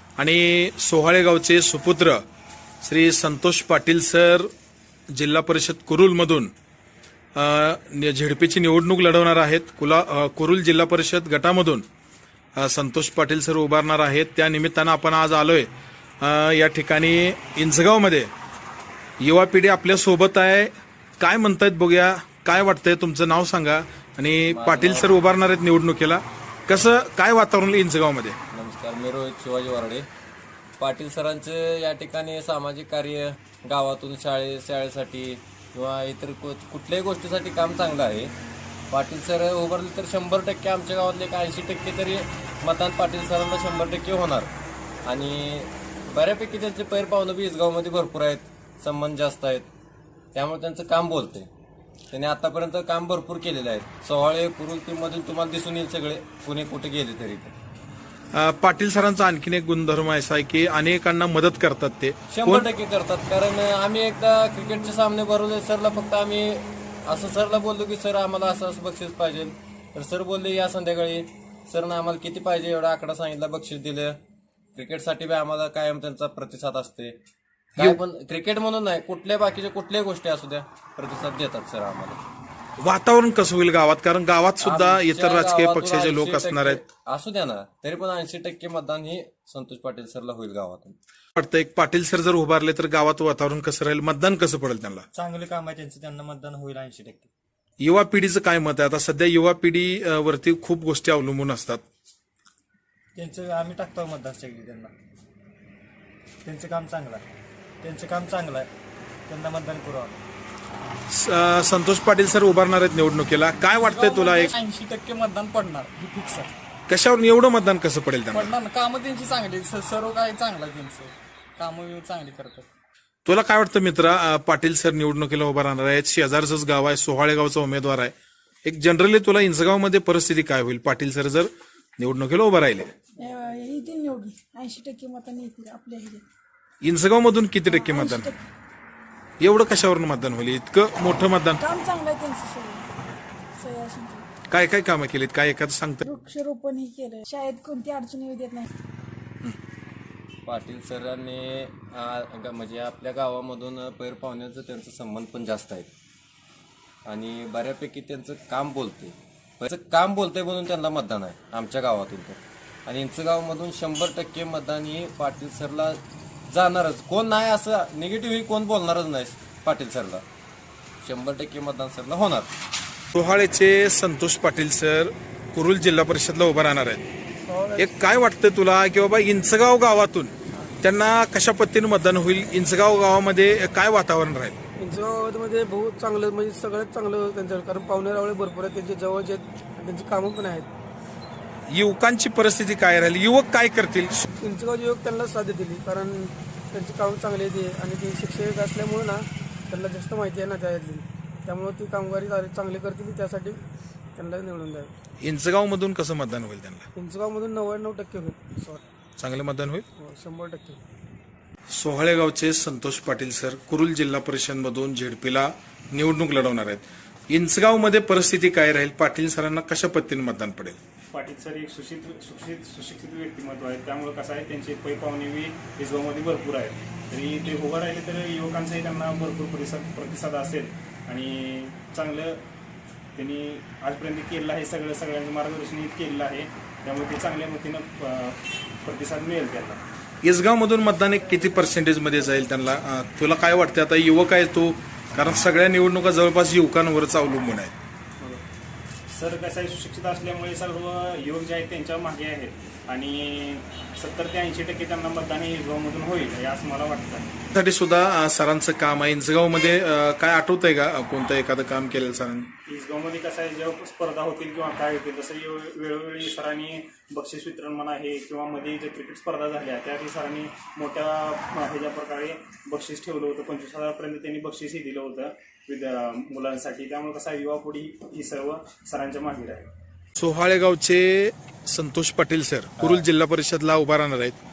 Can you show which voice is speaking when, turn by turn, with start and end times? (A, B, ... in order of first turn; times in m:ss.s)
0:00.2-0:02.2 A
0:02.8-0:04.5 A
0:05.1-0:06.5 A
0:07.4-0:11.8 A
0:12.6-0:15.7 A
0:16.2-0:18.3 A
0:19.2-0:28.4 A
0:24.5-0:25.2 B
0:28.5-0:30.1 B
0:30.8-0:38.3 B
0:38.9-0:44.5 B
0:45.0-0:49.7 B
0:50.3-0:51.5 B
0:52.1-0:57.5 B
0:58.3-1:02.7 A
1:02.3-1:14.2 B
1:14.7-1:17.2 B
1:17.7-1:22.2 B
1:22.8-1:26.8 A
1:24.6-1:31.0 B
1:31.4-1:35.0 A
1:35.1-1:37.3 C
1:37.8-1:41.8 A
1:43.2-1:44.9 C
1:46.4-1:47.2 C
1:47.8-1:48.7 C
1:49.3-1:50.2 C
1:51.1-1:54.5 A
1:53.7-1:56.5 D
1:56.9-1:58.5 A
1:58.3-2:02.6 D
2:03.2-2:08.1 A
2:08.6-2:12.9 A
2:13.2-2:16.2 E
2:16.8-2:18.3 A
2:17.7-2:18.4 E
2:19.4-2:21.6 A
2:21.6-2:22.9 E
2:23.6-2:24.2 E
2:24.5-2:26.0 A
2:26.0-2:28.7 E
2:30.4-2:35.9 B
2:37.1-2:50.2 B
2:51.0-2:52.5 B
2:53.1-2:57.0 A
2:57.5-2:57.9 F
2:57.8-3:04.6 A
3:04.8-3:10.7 F
3:11.7-3:14.2 A
3:14.4-3:23.6 F
3:24.2-3:24.9 F
3:25.2-3:26.9 A
3:27.0-3:28.8 F
3:29.2-3:29.8 A
3:30.0-3:30.8 F
3:31.7-3:40.8 A
3:41.1-3:52.4 G
3:53.2-3:59.8 G
4:00.2-4:07.7 A
4:09.1-4:17.3 G
4:17.5-4:22.5 A
4:22.7-4:39.7 G
4:40.2-4:44.4 A
4:42.8-4:43.0 B